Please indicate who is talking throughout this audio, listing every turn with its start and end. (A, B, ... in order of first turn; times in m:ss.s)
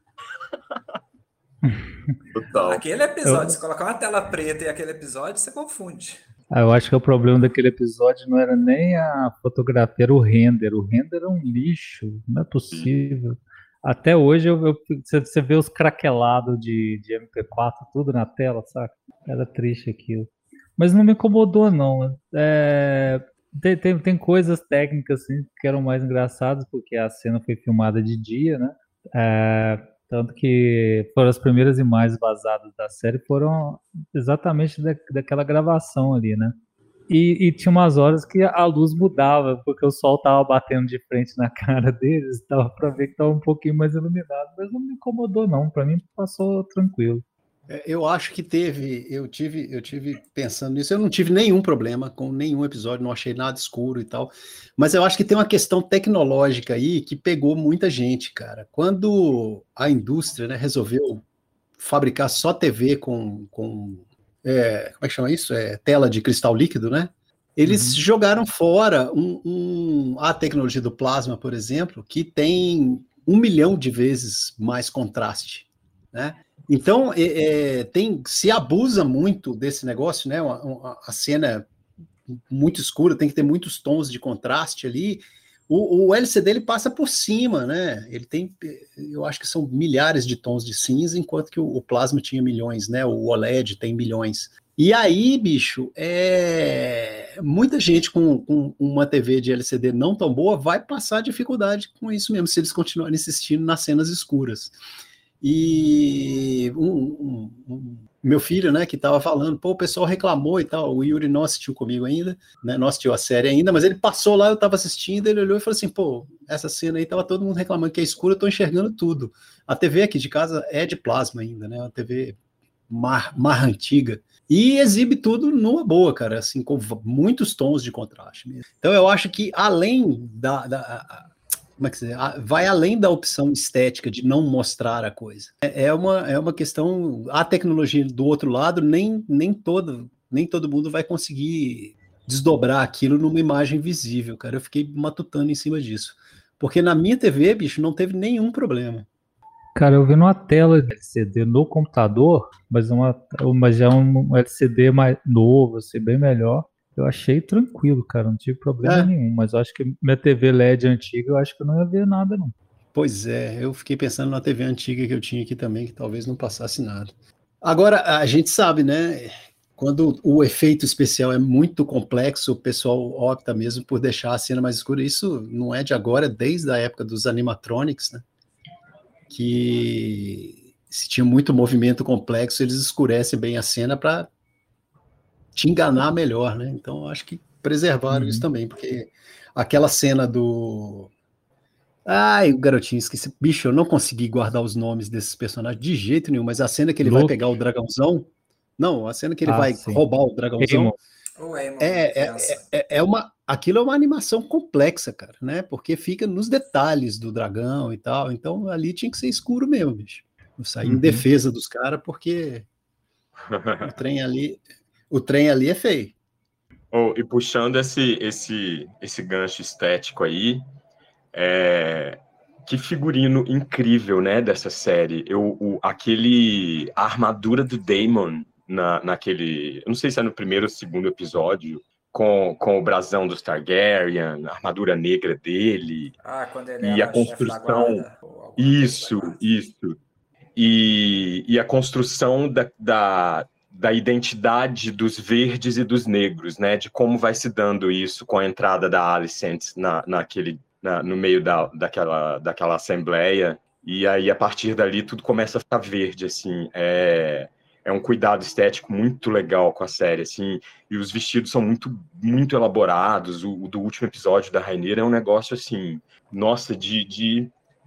0:01.6-0:02.2 A
0:02.3-0:02.8 B
0:02.6-0:06.2 C
0:03.2-0:03.6 A
0:06.5-0:36.6 A
0:37.1-0:47.2 A
0:47.7-1:01.2 D
1:01.8-1:21.7 D
1:07.7-1:08.0 A
1:22.3-1:44.8 D
1:45.4-2:02.4 D
2:02.9-2:11.3 D
2:11.8-2:29.1 D
2:29.8-2:42.5 A
2:38.8-2:39.1 D
2:42.9-2:58.2 D
2:59.3-3:04.3 D
3:05.6-3:11.1 D
3:08.1-3:08.5 A
3:12.1-3:21.0 D
3:17.0-3:17.5 A
3:19.5-3:20.0 A
3:20.6-3:21.0 A
3:21.4-3:22.6 C
3:21.8-3:32.7 D
3:30.8-3:31.2 A
3:33.5-3:33.9 B
3:33.8-3:36.2 D
3:36.9-3:40.6 B
3:41.3-3:56.2 B
3:56.2-3:59.4 C
3:56.8-3:58.0 B
3:58.6-4:00.0 B
4:00.6-4:27.5 B